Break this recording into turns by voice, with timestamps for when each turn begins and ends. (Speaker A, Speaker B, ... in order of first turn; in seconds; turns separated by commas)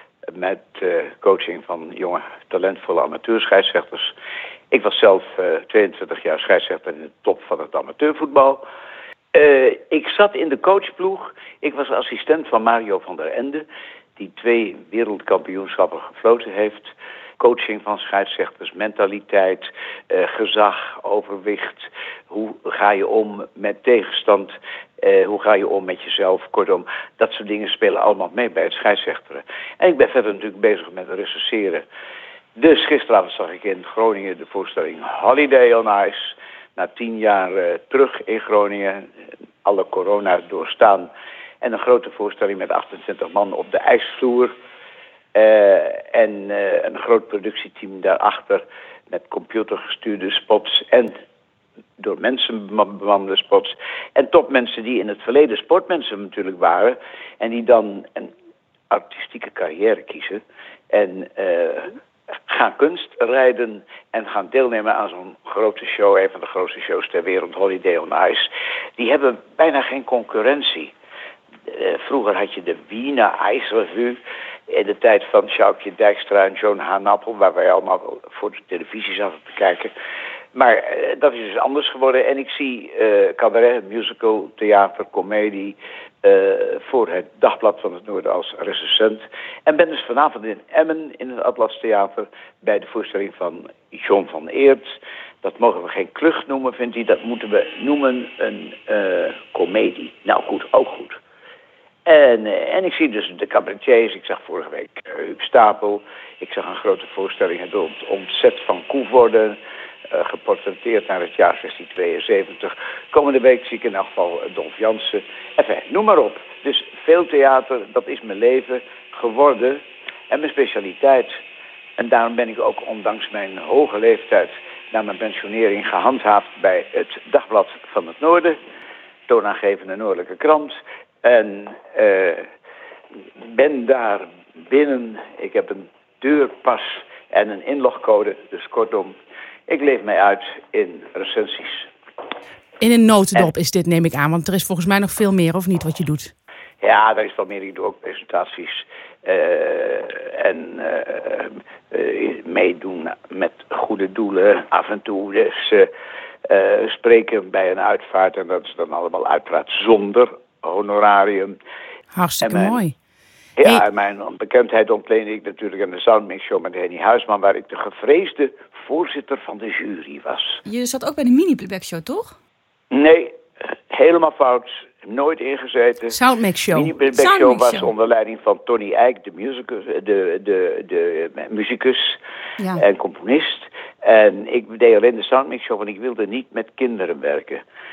Speaker A: 0.3-4.1, Speaker A: 4.7-8.6, Speaker A: 9.3-13.6, Speaker A: 14.2-31.8, Speaker A: 32.6-39.1, Speaker A: 39.6-41.1, Speaker A: 41.6-44.5, Speaker A: 45.3-51.2, Speaker A: 52.0-58.3, Speaker A: 58.9-70.9, Speaker A: 71.7-79.9, Speaker A: 80.5-94.9, Speaker A: 95.4-101.2, Speaker A: 102.0-109.6, Speaker A: 110.1-121.3, Speaker A: 122.0-128.6, Speaker A: 129.3-132.5, Speaker A: 133.4-139.1, Speaker A: 139.7-141.9, Speaker B: 142.8-146.3, Speaker A: 146.8-155.9, Speaker A: 156.5-161.6, Speaker B: 162.1-162.9, Speaker A: 162.4-162.8, Speaker A: 163.6-170.6, Speaker C: 170.6-172.3, Speaker A: 172.9-176.2, Speaker B: 176.1-176.9, Speaker A: 176.7-182.2, Speaker C: 177.1-177.9, Speaker C: 182.6-182.8, Speaker A: 182.8-187.6